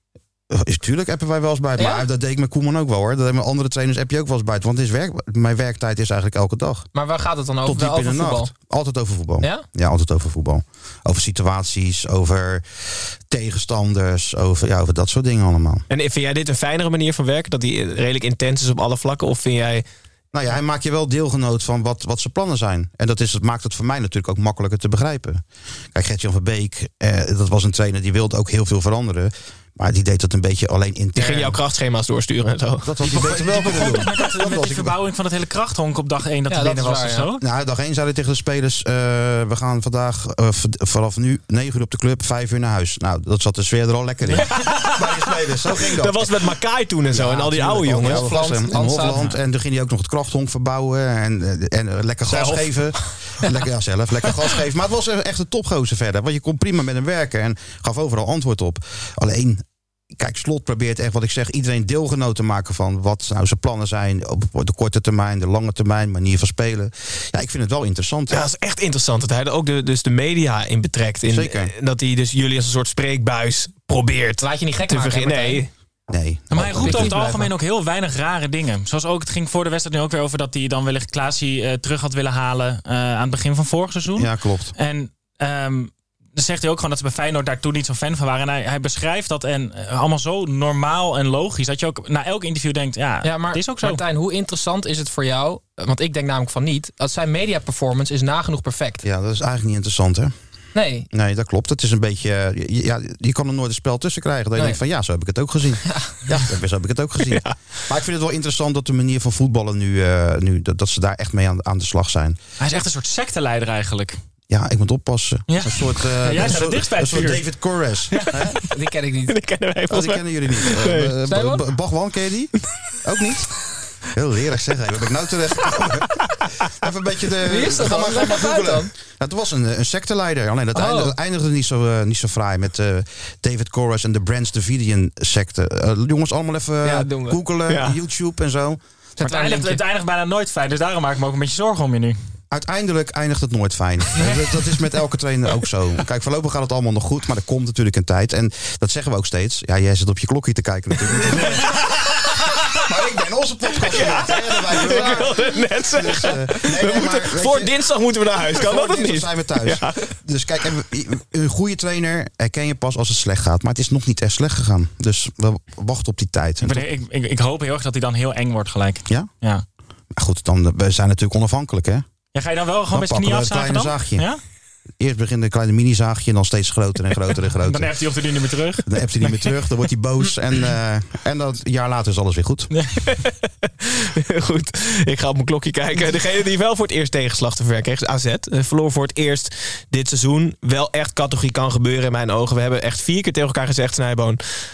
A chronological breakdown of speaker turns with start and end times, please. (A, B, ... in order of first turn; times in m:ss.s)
0:00.5-0:06.9 A
0:01.8-0:02.0 B
0:06.9-0:08.5 B
0:07.6-0:15.9 A
0:15.9-0:19.8 C
0:20.3-0:31.6 A
0:31.1-0:32.9 C
0:32.8-0:34.9 A
0:33.0-0:37.4 D
0:36.5-0:37.3 B
0:37.4-0:46.4 A
0:44.2-0:45.0 D
0:44.4-0:45.0 C
0:45.8-0:48.6 C
0:47.1-1:08.5 A
0:48.0-0:49.2 B
0:49.1-0:49.4 D
0:52.3-0:52.7 D
1:08.3-1:15.7 C
1:11.2-1:11.7 A
1:14.4-1:15.6 B
1:16.1-1:17.5 A
1:16.5-1:34.0 D
1:16.8-1:17.1 B
1:24.1-1:24.7 A
1:33.2-1:39.0 B
1:39.0-1:40.3 A
1:40.7-1:41.1 B
1:41.1-1:52.4 A
1:47.2-1:47.5 C
1:52.6-1:54.2 D
1:54.5-1:58.6 A
1:55.5-1:58.3 D
1:58.7-1:59.3 B
1:59.3-2:01.1 C
1:59.9-2:18.8 A
2:01.3-2:01.6 B
2:07.5-2:08.9 B
2:10.7-2:11.1 B
2:16.8-2:17.4 B
2:17.7-2:18.0 C
2:19.2-2:19.8 B
2:19.2-2:22.2 D
2:22.5-2:31.9 A
2:31.1-2:32.5 C
2:32.8-2:37.9 A
2:33.8-2:40.1 C
2:38.5-2:46.8 A
2:46.6-2:49.6 D
2:50.1-2:52.0 A
2:52.3-2:54.4 D
2:52.9-2:54.3 A
2:55.0-2:58.2 A
2:57.6-2:59.5 D
2:58.8-3:02.7 A
3:04.2-3:14.4 C